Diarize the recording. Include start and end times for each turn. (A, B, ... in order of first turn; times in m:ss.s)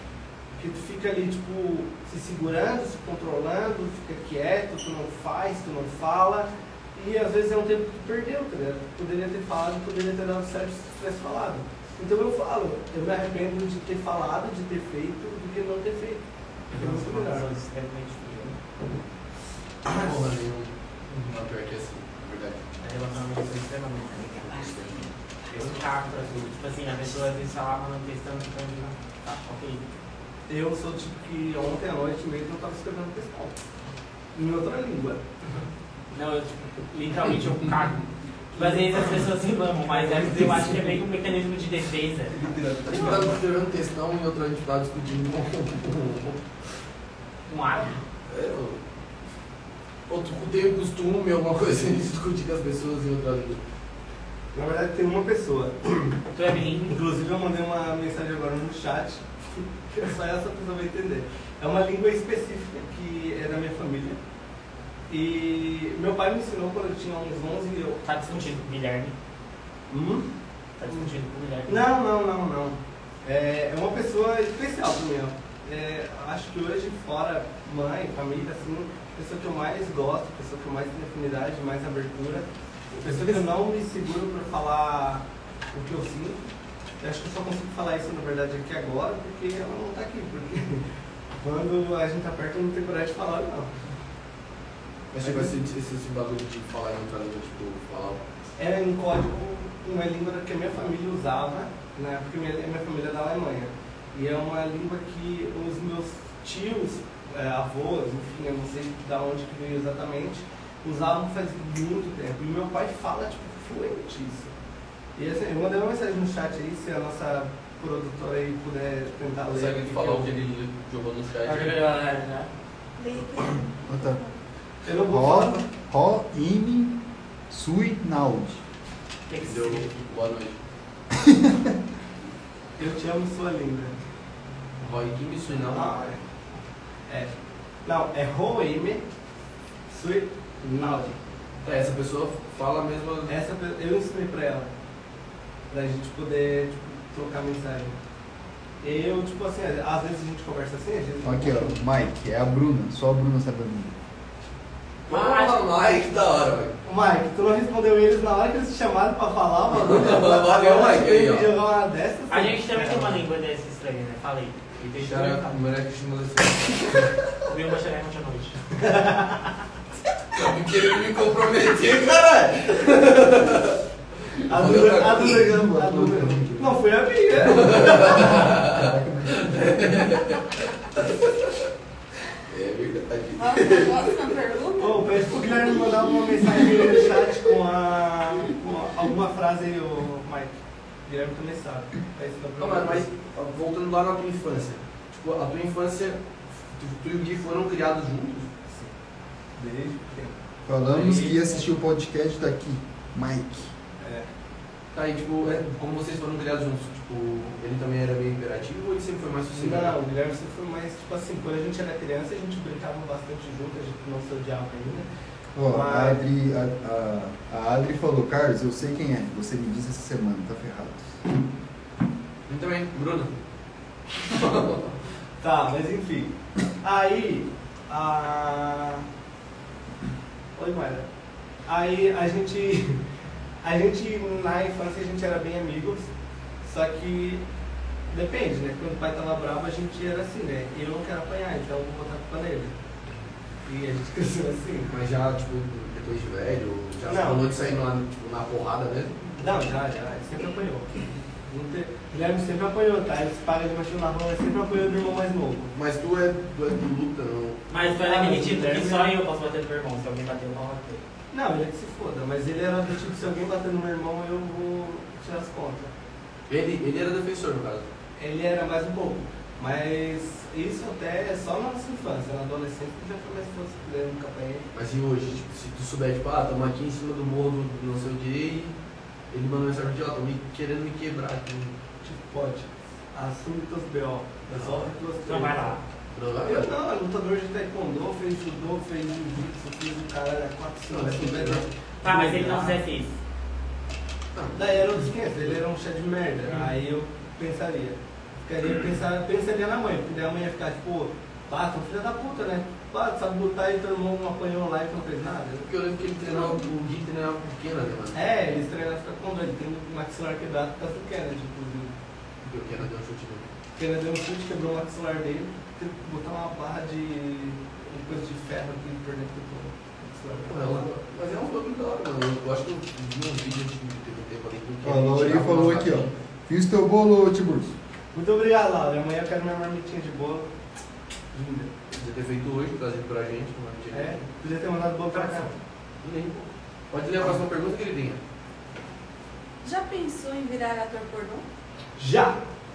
0:00.6-0:16.2 A
0:16.7-0:18.6 B
0:16.7-0:17.5 A
0:19.8-0:22.6 C
0:19.9-0:20.1 A
0:22.8-0:29.8 B
0:30.5-0:33.6 A
0:34.3-0:35.2 A
0:36.1-0:38.0 B
0:38.5-0:39.2 A
0:38.5-0:42.4 B
0:39.9-0:41.0 A
0:42.3-0:43.3 A
0:42.6-0:46.4 C
0:47.5-0:48.0 B
0:48.3-0:48.8 C
0:50.1-0:53.6 C
0:54.5-0:56.2 A
0:56.3-0:57.0 B
0:56.9-1:04.2 A
1:05.1-1:08.4 A
1:08.0-1:09.1 B
1:09.9-1:10.3 A
1:10.8-1:11.9 B
1:11.7-1:26.5 A
1:27.0-1:30.8 A
1:31.4-1:33.7 A
1:35.1-1:38.2 C
1:35.2-1:35.5 A
1:38.6-1:54.5 A
1:55.2-2:00.3 A
1:59.5-2:01.8 C
2:01.4-2:02.5 B
2:03.0-2:04.3 D
2:03.9-2:04.2 E
2:04.8-2:05.7 A
2:05.0-2:07.0 E
2:07.5-2:08.6 E
2:09.3-2:10.0 B
2:09.4-2:10.6 C
2:11.2-2:11.7 E
2:12.8-2:13.9 A
2:14.8-2:16.1 C
2:15.7-2:16.2 A
2:17.1-2:17.3 A
2:17.8-2:19.0 A
2:19.9-2:21.2 A
2:21.6-2:23.4 C
2:23.3-2:24.7 A
2:25.7-2:27.9 A
2:28.8-2:31.7 A
2:31.2-2:34.0 E
2:35.1-2:35.6 B
2:35.1-2:36.8 C
2:36.8-2:43.2 A
2:39.7-2:41.5 C
2:42.3-2:45.6 B
2:44.8-2:47.1 C
2:47.5-2:48.6 B
2:48.8-2:49.6 A
2:50.3-2:53.8 C
2:54.4-2:56.4 C
2:54.4-2:58.6 A
2:57.4-3:01.6 C
2:58.7-2:59.8 E
3:02.5-3:04.3 C
3:03.4-3:05.1 D
3:04.8-3:10.5 A
3:06.5-3:06.9 C
3:11.0-3:13.1 A
3:12.6-3:16.2 C
3:16.7-3:18.5 C
3:19.6-3:20.4 A
3:20.6-3:23.7 E
3:20.9-3:21.7 A
3:24.0-3:24.3 A
3:24.9-3:30.0 C
3:29.5-3:35.1 A
3:35.6-3:41.2 E
3:35.7-3:36.2 A
3:42.5-3:43.3 C
3:44.2-3:45.0 C
3:45.4-3:49.0 A
3:50.6-3:51.0 A
3:51.6-3:53.0 A
3:53.6-3:56.1 A
3:56.6-3:57.4 A
3:58.1-4:02.7 A
4:03.6-4:04.9 A
4:04.9-4:09.2 C
4:07.1-4:07.5 A
4:09.4-4:15.7 A
4:15.7-4:17.6 C
4:17.7-4:21.0 B
4:17.8-4:19.1 A
4:21.3-4:25.9 A
4:26.5-4:27.8 C
4:28.2-4:34.6 A
4:34.7-4:38.8 C
4:39.3-4:41.7 C
4:42.0-4:45.8 A
4:44.5-4:44.9 C
4:45.2-4:45.8 B
4:46.1-4:46.7 C
4:46.4-4:52.8 A
4:50.9-4:51.7 C
4:52.0-4:53.2 B
4:54.3-4:55.5 C
4:54.5-5:05.7 A
5:05.6-5:08.5 C
5:06.3-5:06.6 A
5:08.1-5:11.9 A
5:12.4-5:13.5 C
5:13.8-5:20.9 A
5:20.4-5:26.1 C
5:24.8-5:27.7 E
5:28.1-5:30.5 A
5:31.3-5:31.7 A
5:31.9-5:34.3 C
5:33.9-5:35.5 A
5:35.1-5:35.5 B
5:36.0-5:38.2 C
5:39.6-5:41.4 D
5:42.0-5:42.4 A